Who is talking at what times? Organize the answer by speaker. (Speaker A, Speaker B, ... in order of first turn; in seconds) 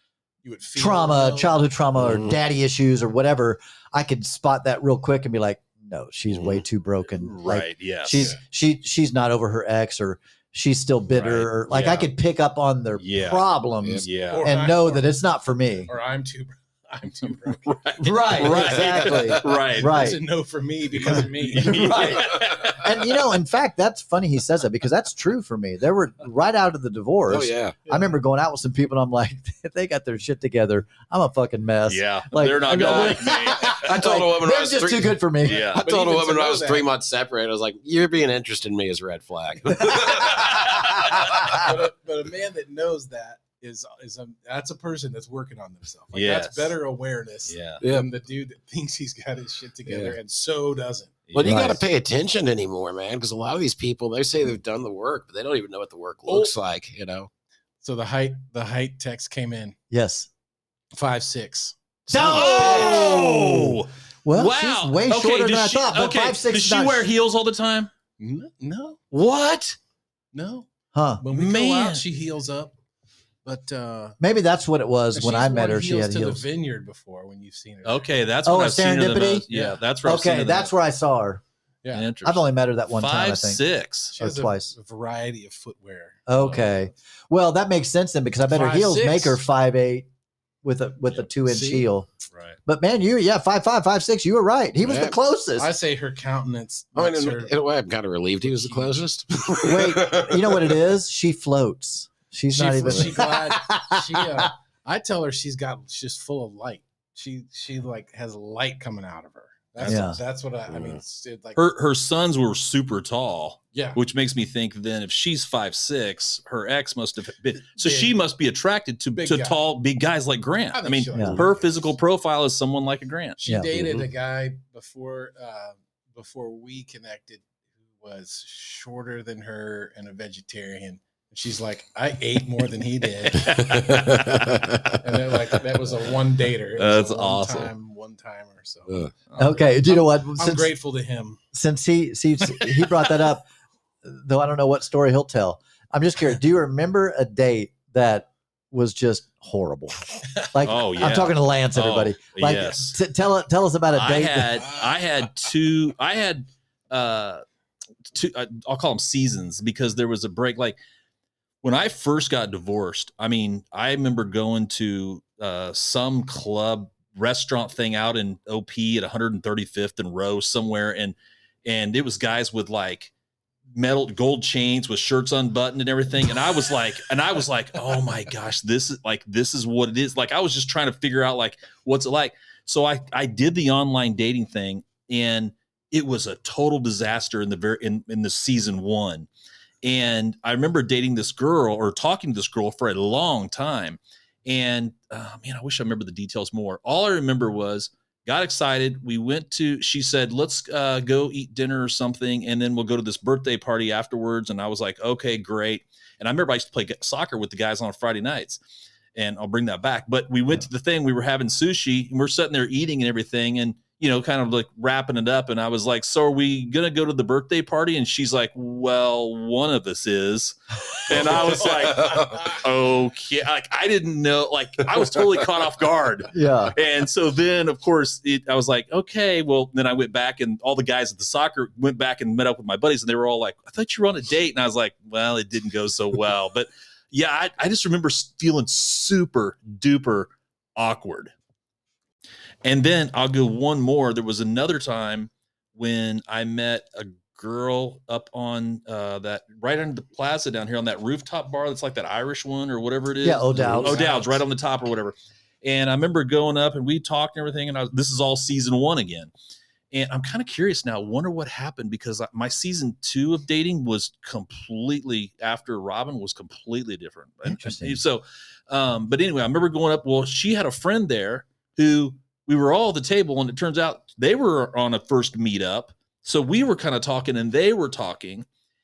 Speaker A: 0.4-1.6, 14.3-15.1, 15.9-18.9, 19.4-22.2, 27.9-28.1, 35.8-36.9, 41.3-51.2, 56.3-56.5, 57.8-59.8, 60.9-63.2, 68.2-69.0, 70.3-70.7, 71.2-72.7, 73.4-74.2, 75.1-78.2, 79.5-79.8, 81.8-82.1, 84.1-86.2, 88.5-89.4, 91.4-91.9, 95.5-97.5, 98.4-99.0, 102.5-111.6, 113.7-114.0, 117.8-118.1, 119.2-119.6, 120.7-121.6, 123.4-134.0, 134.9-139.1, 139.8-141.4, 154.6-155.0, 221.8-222.4, 253.7-254.4
Speaker B: 0.7-15.9, 18.0-20.2, 21.0-35.7, 51.4-51.8, 59.9-60.3, 62.1-67.1, 70.9-71.2, 74.2-76.4, 78.4-79.5, 80.0-81.4, 82.2-83.6, 84.2-84.7, 86.3-90.1, 90.6-92.1, 92.7-95.7, 99.6-104.5, 109.8-110.2, 121.1-121.4, 139.4-140.7, 141.5-143.4, 144.0-154.7, 226.3-226.7, 253.2-254.0, 267.4-268.0
Speaker C: 2.0-2.4, 6.3-6.6, 13.8-14.1, 18.5-19.4, 27.3-27.8, 33.6-41.6, 47.8-48.1, 49.9-50.1, 51.3-57.3, 94.8-95.2, 97.0-100.8, 110.7-111.0, 123.7-124.1, 133.7-134.9, 221.7-222.3, 253.6-253.8
Speaker D: 7.2-8.3, 11.1-12.1, 13.0-13.4, 14.0-14.4, 17.6-20.1, 21.4-22.9, 31.9-33.8, 35.4-35.8, 40.1-41.4, 46.1-46.7, 47.5-47.8, 51.3-51.6, 62.1-67.9, 69.1-69.8, 71.3-72.0, 77.8-80.7, 81.9-84.1, 86.4-86.9, 111.5-123.3, 133.3-134.9, 136.8-137.7, 150.6-153.0, 153.9-157.4, 158.1-160.8, 161.6-173.1, 173.7-189.3, 189.8-208.6, 209.1-241.3, 242.6-259.3, 259.9-278.4